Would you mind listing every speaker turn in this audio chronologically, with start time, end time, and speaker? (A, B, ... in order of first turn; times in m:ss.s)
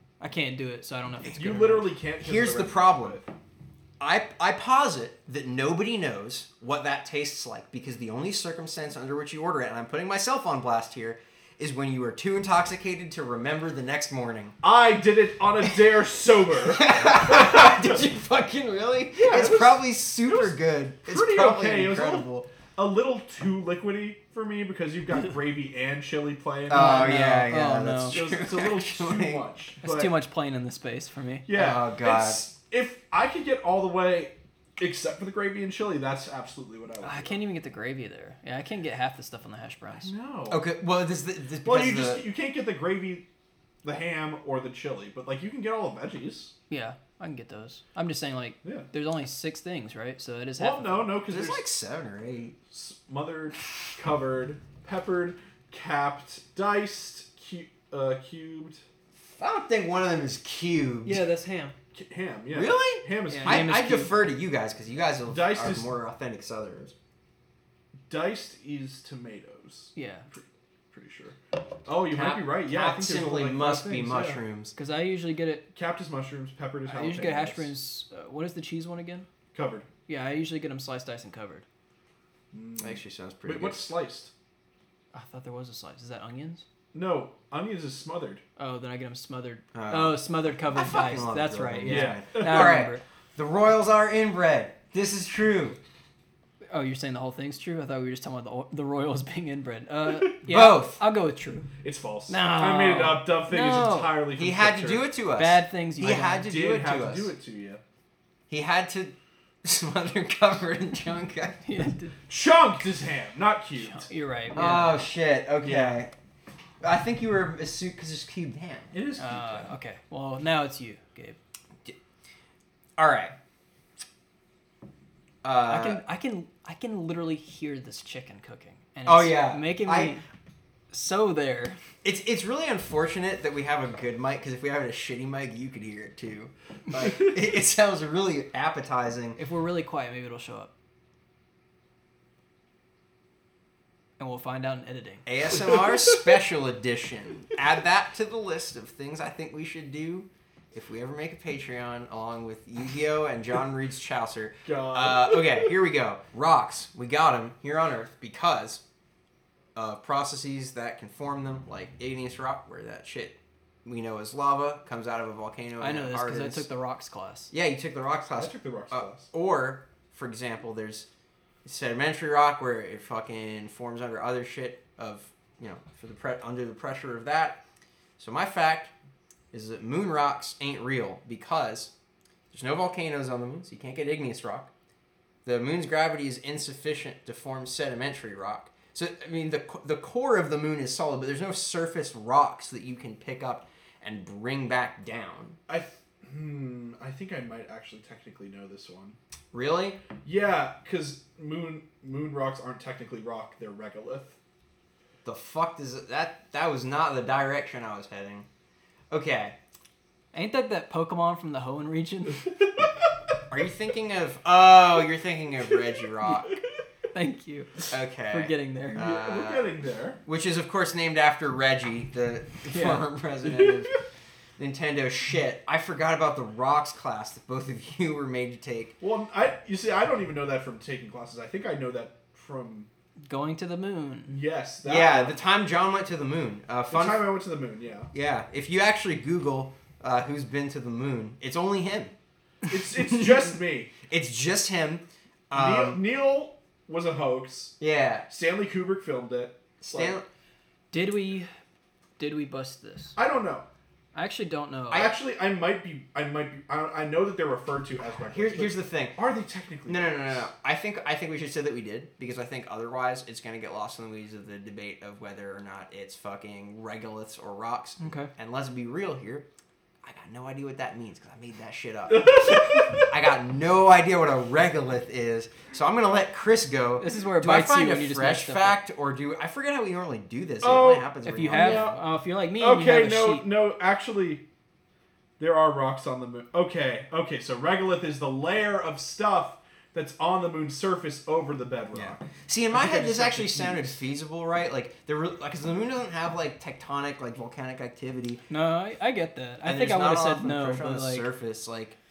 0:00.2-0:01.9 A
0:01.3-0:03.3 B
0:02.2-0:03.2 C
0:04.0-0:14.6 C
0:14.6-0:18.0 B
0:16.6-0:22.5 C
0:19.1-0:27.3 B
0:26.7-0:29.5 C
0:26.7-0:28.2 A
0:28.1-0:30.1 B
0:29.8-0:31.5 A
0:31.5-0:37.4 B
0:31.5-0:32.4 C
0:37.0-0:40.1 A
0:40.0-0:40.7 B
0:40.5-0:42.3 C
0:41.6-0:43.3 B
0:43.8-0:46.5 B
0:46.7-0:51.2 A
0:48.6-0:48.9 B
0:50.6-0:51.7 B
0:51.3-0:52.6 C
0:52.7-0:58.8 B
0:59.2-1:01.2 C
1:01.0-1:01.8 A
1:01.9-1:03.9 B
1:02.5-1:07.0 C
1:03.3-1:04.1 A
1:05.3-1:05.9 B
1:08.1-1:14.4 B
1:10.0-1:10.3 A
1:12.2-1:14.7 C
1:14.8-1:15.7 A
1:15.7-1:17.7 B
1:16.9-1:19.3 A
1:19.5-1:19.9 B
1:20.1-1:21.6 A
1:22.5-1:24.3 B
1:22.8-1:23.9 C
1:25.1-1:26.6 A
1:26.9-1:28.4 B
1:28.6-1:33.0 A
1:29.7-1:35.8 C
1:31.8-1:32.8 B
1:36.7-1:41.7 A
1:40.4-1:41.0 C
1:41.8-1:45.1 B
1:42.3-1:44.2 A
1:44.4-1:47.3 C
1:45.4-1:46.5 A
1:46.1-1:47.8 B
1:48.5-1:51.6 C
1:51.6-1:52.2 A
1:52.3-1:54.1 B
1:53.8-1:55.0 A
1:54.5-1:56.1 C
1:55.6-1:56.0 B
1:56.8-1:59.0 C
1:58.9-1:59.7 B
1:59.2-2:01.4 A
2:03.0-2:03.4 C
2:05.4-2:06.0 C
2:05.7-2:10.2 A
2:09.0-2:10.2 C
2:10.9-2:11.8 A
2:12.0-2:19.4 C
2:19.4-2:20.7 A
2:24.2-2:25.2 A
2:25.3-2:38.8 C
2:34.7-2:35.7 B
2:39.8-2:46.7 C
2:45.8-2:47.5 A
2:47.5-2:51.1 C
2:48.4-2:49.3 B
2:51.6-2:57.6 C
2:58.2-2:58.9 C
2:59.5-3:01.9 C
3:02.5-3:04.7 C
3:05.4-3:15.6 C
3:15.7-3:19.2 B
3:19.5-3:20.0 C
3:20.2-3:24.4 B
3:25.2-3:28.5 C
3:29.1-3:29.6 C
3:30.3-3:32.5 A
3:33.5-3:36.6 C
3:37.1-3:39.0 A
3:37.9-3:39.7 C
3:39.0-3:40.2 B
3:40.2-3:43.9 C
3:42.7-3:43.0 A
3:44.6-3:49.0 C
3:49.0-3:52.9 B
3:53.3-3:54.4 A
3:54.3-3:55.4 B
3:54.8-3:57.3 C
3:56.9-3:58.1 B
3:58.1-4:02.1 C
4:02.7-4:03.9 B
4:03.1-4:03.4 C
4:04.1-4:06.0 C
4:05.5-4:10.2 B
4:07.8-4:08.3 C
4:09.8-4:10.3 C
4:10.9-4:11.5 A
4:12.2-4:13.2 A
4:13.2-4:13.7 B
4:14.1-4:15.1 A
4:14.9-4:20.5 B
4:18.2-4:19.2 C
4:19.9-4:29.5 C
4:28.0-4:28.3 A
4:30.0-4:42.0 C
4:32.1-4:33.1 B
4:37.0-4:38.8 A
4:40.6-4:42.0 B
4:41.2-4:43.5 A
4:42.6-4:44.5 B
4:45.4-4:54.0 B
4:51.9-4:58.4 C
4:58.5-5:01.3 A
4:59.6-5:02.0 C